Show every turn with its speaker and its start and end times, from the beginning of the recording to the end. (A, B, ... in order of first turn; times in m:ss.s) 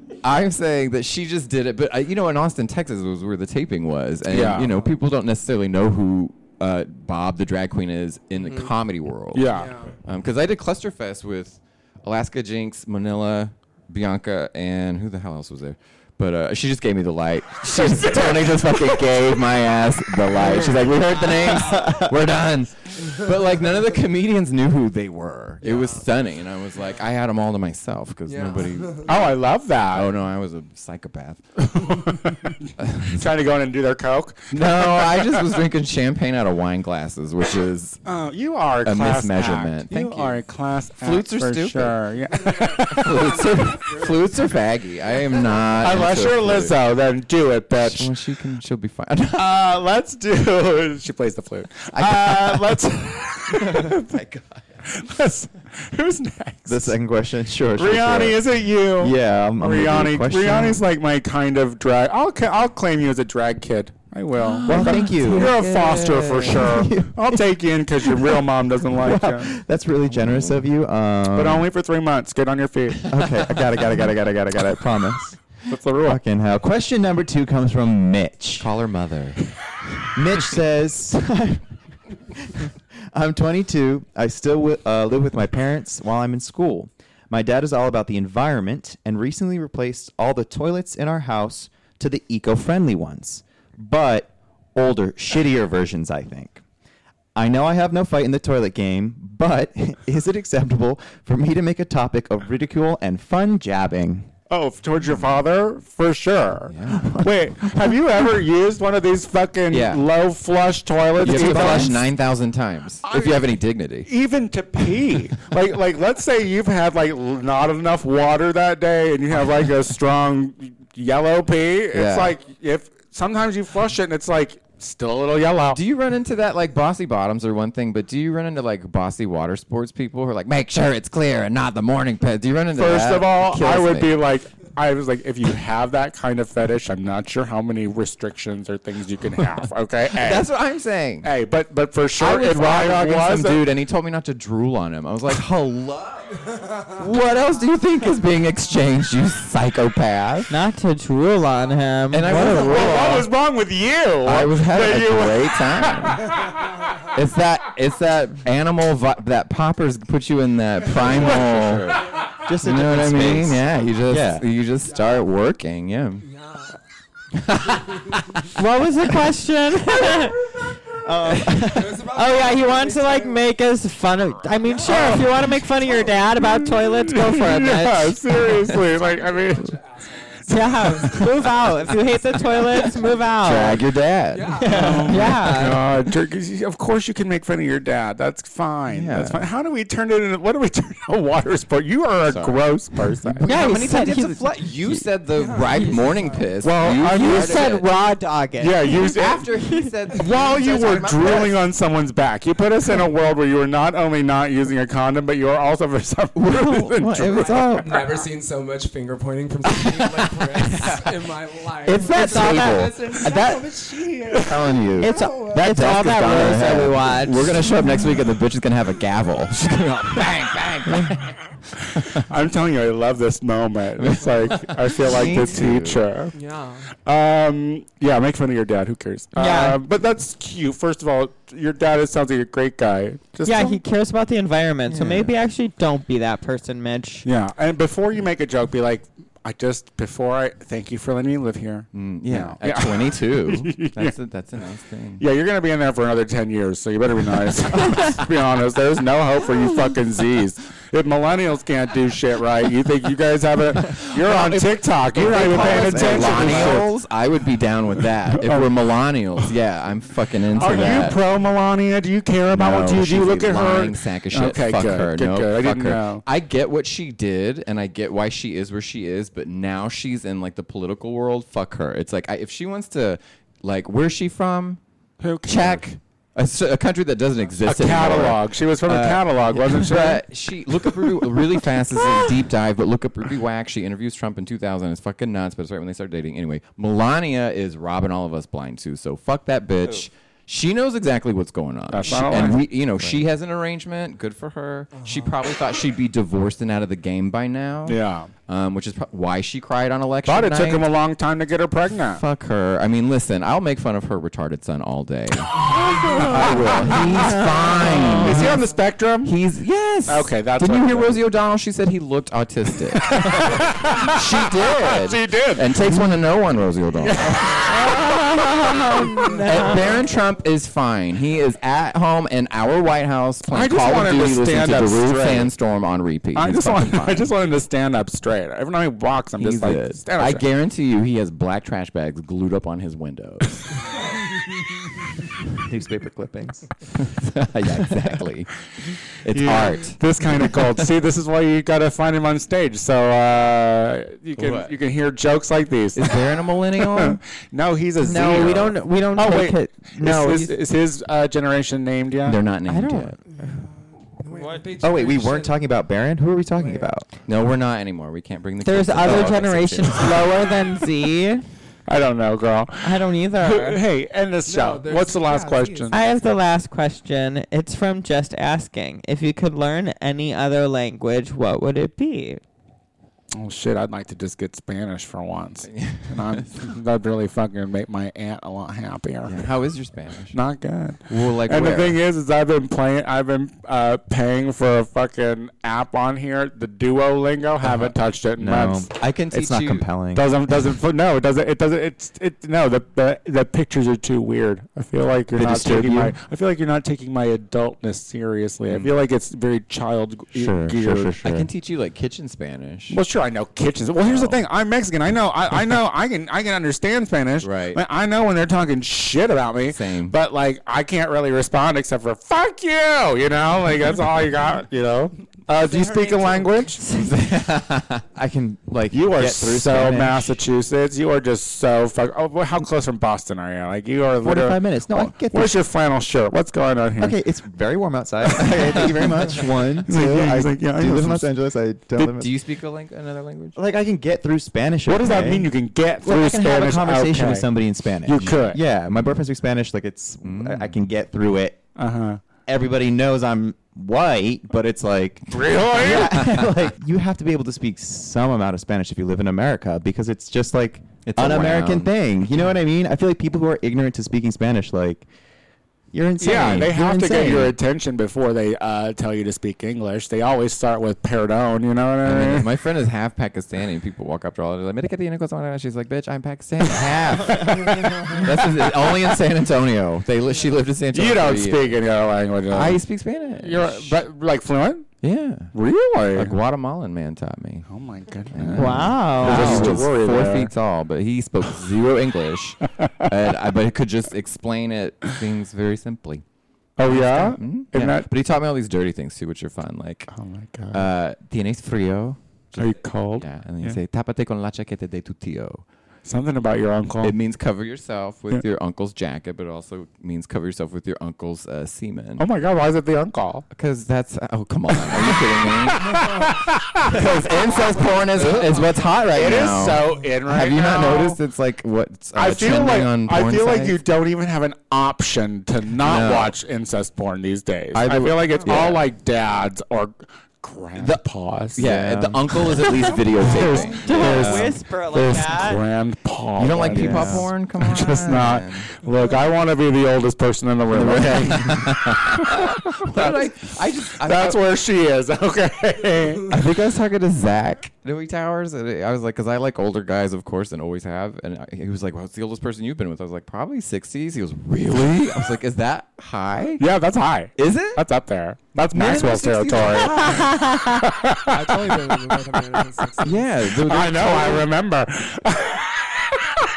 0:00.2-0:09.5 A
0:04.3-0:04.8 B
0:08.4-0:08.7 C
0:09.3-0:09.7 B
0:09.5-0:09.9 C
0:10.0-0:29.1 A
0:17.8-0:18.6 B
0:25.6-0:26.1 C
0:28.3-0:29.1 C
0:29.1-0:30.1 B
0:29.9-0:31.4 A
0:31.6-0:35.6 B
0:32.8-0:33.2 A
0:34.5-0:38.0 A
0:38.0-0:43.5 B
0:38.8-0:40.4 A
0:41.0-0:42.0 A
0:42.4-0:44.4 C
0:42.9-0:46.8 A
0:45.8-0:48.2 B
0:47.8-0:49.5 A
0:49.3-0:54.2 B
0:52.0-0:52.5 A
0:52.0-0:52.7 D
0:53.7-0:54.6 A
0:54.9-0:57.0 B
0:56.7-1:00.8 D
0:57.7-1:09.6 B
1:04.4-1:06.6 A
1:04.6-1:07.5 D
1:08.0-1:11.7 D
1:10.2-1:10.6 A
1:11.3-1:13.1 B
1:13.1-1:15.4 D
1:15.7-1:16.2 B
1:16.0-1:18.7 D
1:18.6-1:19.4 A
1:20.1-1:21.7 D
1:22.4-1:36.6 D
1:37.4-1:44.3 D
1:44.5-1:52.1 B
1:46.7-1:47.1 A
1:46.9-1:48.0 D
1:49.7-1:50.0 A
1:51.2-1:52.0 D
1:51.2-1:54.1 A
1:53.0-2:05.8 B
2:01.9-2:02.4 A
2:05.7-2:14.1 A
2:12.8-2:20.5 B
2:20.2-2:21.3 A
2:21.2-2:23.7 B
2:22.2-2:30.5 A
2:30.5-2:32.6 E
2:32.1-2:33.3 A
2:32.3-2:36.7 B
2:34.2-2:36.3 A
2:37.1-2:42.0 A
2:41.1-2:42.0 B
2:42.4-2:44.4 D
2:42.6-2:46.2 A
2:44.8-2:45.2 C
2:46.2-2:46.8 C
2:47.4-2:48.4 A
2:47.8-2:48.5 C
2:48.6-2:50.5 E
2:51.0-2:52.0 D
2:51.4-2:58.2 E
2:51.6-2:53.4 C
2:54.6-2:56.2 C
2:54.9-2:55.3 B
2:56.4-2:59.7 B
2:58.6-3:03.4 C
3:00.5-3:03.8 E
3:03.4-3:04.6 A
3:04.3-3:05.2 C
3:04.6-3:05.8 E
3:04.7-3:13.4 B
3:08.9-3:09.4 A
3:12.2-3:12.6 A
3:13.2-3:17.9 A
3:13.4-3:14.9 E
3:15.3-3:16.5 C
3:16.6-3:17.8 B
3:16.9-3:19.0 E
3:18.6-3:19.5 B
3:18.9-3:21.6 A
3:20.1-3:27.8 B
3:26.4-3:28.1 A
3:27.2-3:36.3 C
3:30.6-3:30.9 A
3:31.9-3:33.5 E
3:32.0-3:32.9 D
3:34.5-3:35.1 A
3:34.7-3:35.0 D
3:35.0-3:37.6 E
3:35.5-3:37.0 D
3:36.0-3:41.3 A
3:42.0-3:46.4 B
3:44.0-3:46.0 A
3:46.3-3:46.9 C
3:47.0-3:53.8 B
3:49.4-3:49.8 E
3:53.4-3:57.3 E
3:54.9-3:55.3 A
3:57.2-4:04.2 B
4:01.9-4:05.2 A
4:05.2-4:16.9 B
4:14.2-4:21.2 A
4:15.2-4:16.8 D
4:18.3-4:18.8 B
4:20.5-4:26.2 B
4:20.7-4:21.0 C
4:22.6-4:34.8 A
4:35.2-4:35.9 B
4:35.4-5:00.9 A
4:37.6-4:40.2 B
4:40.8-4:42.3 B
4:51.9-4:52.7 B
4:54.9-4:55.4 C
4:57.9-4:58.3 B
5:00.3-5:02.2 B
5:02.1-5:08.6 A
5:05.7-5:08.6 E
5:05.9-5:07.3 B
5:08.0-5:09.4 B
5:09.2-5:17.3 A
5:10.1-5:11.2 B
5:13.0-5:15.8 B
5:17.0-5:19.7 B
5:17.7-5:20.0 E
5:19.4-5:27.3 A
5:23.5-5:25.5 B
5:26.4-5:30.4 B
5:29.4-5:33.8 A
5:35.5-5:36.7 D
5:37.0-5:38.5 A
5:37.6-5:38.3 D
5:39.2-5:40.8 A
5:39.3-5:46.2 B
5:44.4-5:44.7 A
5:46.0-5:47.2 A
5:46.8-5:52.4 B
5:48.0-5:50.6 E
5:52.2-5:53.2 A
5:52.7-5:53.7 E
5:53.3-5:55.6 C
5:54.3-5:54.7 E
5:54.8-5:57.1 D
5:56.6-5:56.9 C
5:57.3-6:00.3 A
5:58.6-6:01.4 E
6:01.9-6:06.0 B
6:02.8-6:03.8 E
6:04.4-6:06.0 C
6:05.9-6:12.4 E
6:13.4-6:19.5 B
6:15.7-6:16.6 A
6:19.2-6:20.4 A
6:20.3-6:28.9 B
6:21.1-6:22.0 A
6:27.6-6:30.5 D
6:29.0-6:29.9 A
6:30.1-6:41.2 B
6:35.3-6:36.2 D
6:38.7-6:39.0 A
6:40.3-6:41.5 D
6:41.2-6:43.0 A
6:42.9-6:56.9 B
6:44.0-6:44.4 A
6:47.4-6:47.8 A
6:49.7-6:50.2 A
6:55.5-6:56.8 C
6:57.0-6:58.0 A
6:58.2-7:00.4 D
6:58.9-7:07.2 B
7:04.2-7:05.6 D
7:07.0-7:12.3 D
7:08.7-7:09.1 A
7:09.9-7:11.3 B
7:12.0-7:13.6 A
7:13.6-7:15.5 D
7:14.9-7:17.5 B
7:16.0-7:21.6 D
7:18.0-7:18.6 B
7:20.2-7:20.8 A
7:21.8-7:22.2 B
7:22.5-7:35.1 D
7:25.3-7:26.3 B
7:25.8-7:26.4 A
7:31.0-7:31.9 A
7:35.9-7:37.6 D
7:36.2-7:42.5 B
7:42.0-7:51.8 A
7:46.8-7:48.9 B
7:47.4-7:48.2 C
7:50.9-7:52.8 B
7:52.5-7:54.0 A
7:53.4-7:54.9 B
7:55.0-7:55.5 A
7:55.5-7:56.4 B
7:56.1-7:57.7 A
7:57.7-8:00.5 B
7:58.3-8:06.2 A
7:58.6-7:59.8 E
8:06.8-8:08.1 B
8:06.8-8:10.1 A
8:10.1-8:10.9 B
8:10.7-8:15.6 A
8:12.5-8:13.8 B
8:16.0-8:17.2 B
8:17.0-8:22.3 A
8:22.2-8:23.5 B
8:23.5-8:26.0 A
8:24.9-8:27.0 B
8:26.8-8:33.8 A
8:27.8-8:28.9 C
8:28.2-8:31.2 B
8:32.1-8:41.8 B
8:35.8-8:36.4 A
8:37.7-8:38.8 A
8:38.3-8:38.6 C
8:40.8-8:41.0 A
8:41.6-8:44.6 A
8:41.6-8:42.4 D
8:42.7-8:53.3 B
8:43.8-8:45.6 E
8:46.4-8:48.7 A
8:46.7-8:47.3 D
8:50.7-8:54.4 A
8:54.0-8:56.3 B
8:56.3-9:06.6 A
9:06.6-9:12.8 B
9:07.4-9:07.8 A
9:08.7-9:10.3 A
9:09.6-9:10.3 C
9:10.2-9:10.8 E
9:11.3-9:13.3 C
9:13.0-9:14.5 A
9:13.6-9:16.4 B